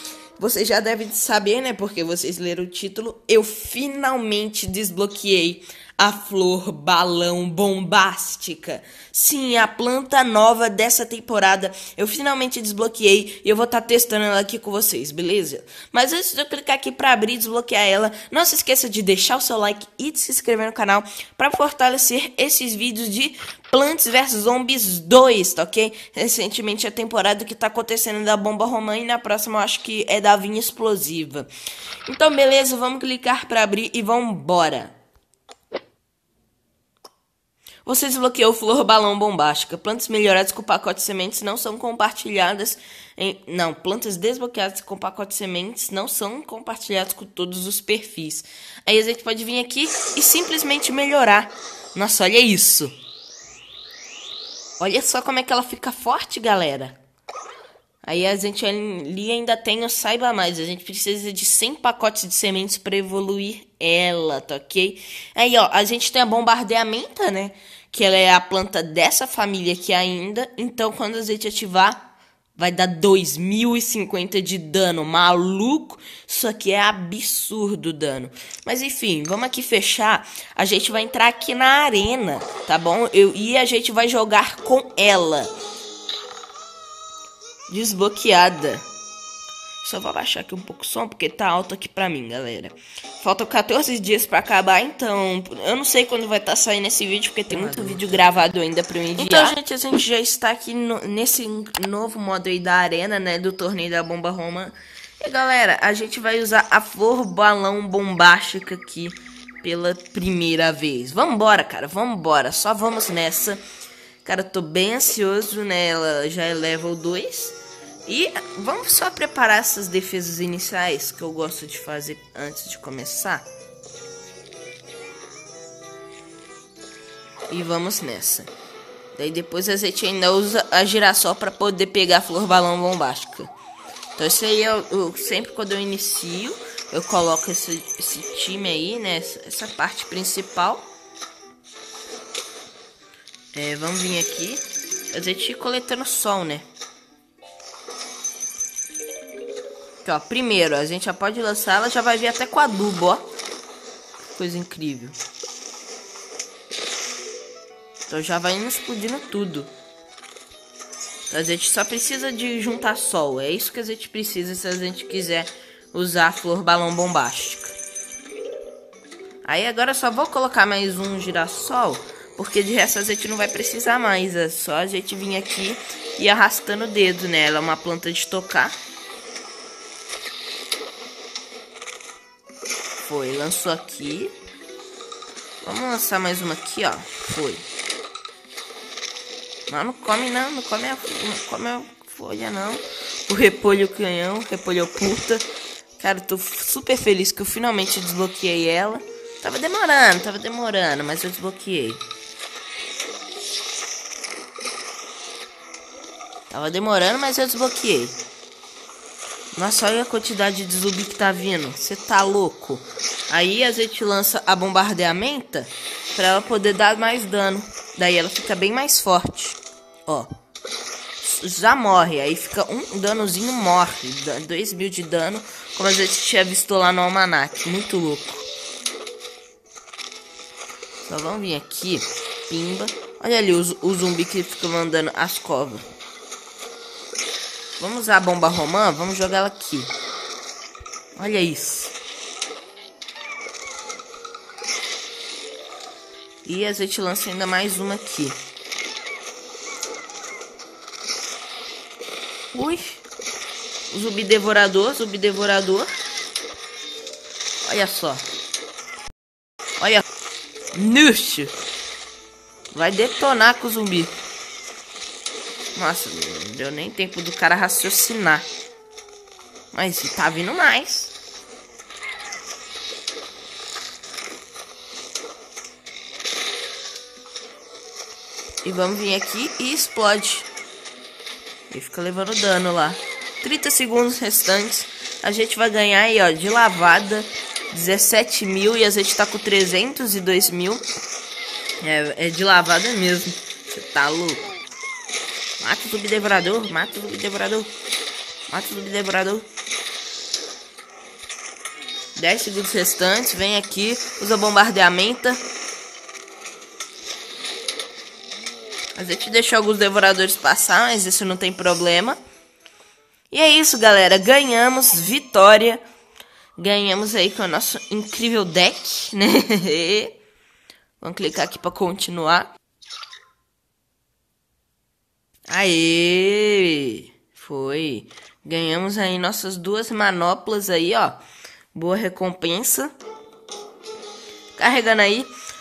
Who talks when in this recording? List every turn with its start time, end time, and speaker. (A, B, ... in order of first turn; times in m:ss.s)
0:00.4-0:31.5 A
0:32.0-0:34.9 A
0:37.8-0:52.9 A
0:54.8-0:57.0 A
0:58.0-1:12.0 A
1:12.6-1:25.5 A
1:27.7-1:28.9 A
1:29.8-1:53.6 A
1:54.2-2:03.4 A
2:07.5-2:08.5 A
2:09.1-2:13.5 A
2:14.2-2:20.9 A
2:23.5-2:26.7 A
2:30.0-2:33.2 A
2:34.3-2:35.2 A
2:38.1-2:39.7 A
2:41.3-2:47.8 A
2:49.4-2:58.8 A
3:03.0-3:04.4 A
3:05.6-3:07.6 A
3:09.7-3:15.4 A
3:16.0-3:22.0 A
3:26.5-3:28.2 A
3:29.5-3:40.3 A
3:41.2-3:48.4 A
3:51.1-3:55.8 A
3:57.8-3:59.9 A
4:01.2-4:01.9 A
4:06.4-4:08.4 A
4:12.5-4:13.0 A
4:13.9-4:15.9 A
4:17.6-4:18.2 A
4:19.8-4:20.0 A
4:20.7-4:21.5 A
4:22.7-4:24.1 A
4:25.8-4:28.5 A
4:29.7-4:31.1 A
4:38.6-4:40.5 A
4:41.7-4:50.8 A
4:51.8-4:54.4 A
4:55.6-4:57.7 A
4:58.5-4:59.4 A
5:02.2-5:05.4 A
5:09.0-5:12.2 A
5:13.3-5:15.8 A
5:16.6-5:20.2 A
5:21.0-5:22.5 A
5:25.5-5:31.2 A
5:31.7-5:32.9 A
5:34.6-5:35.3 A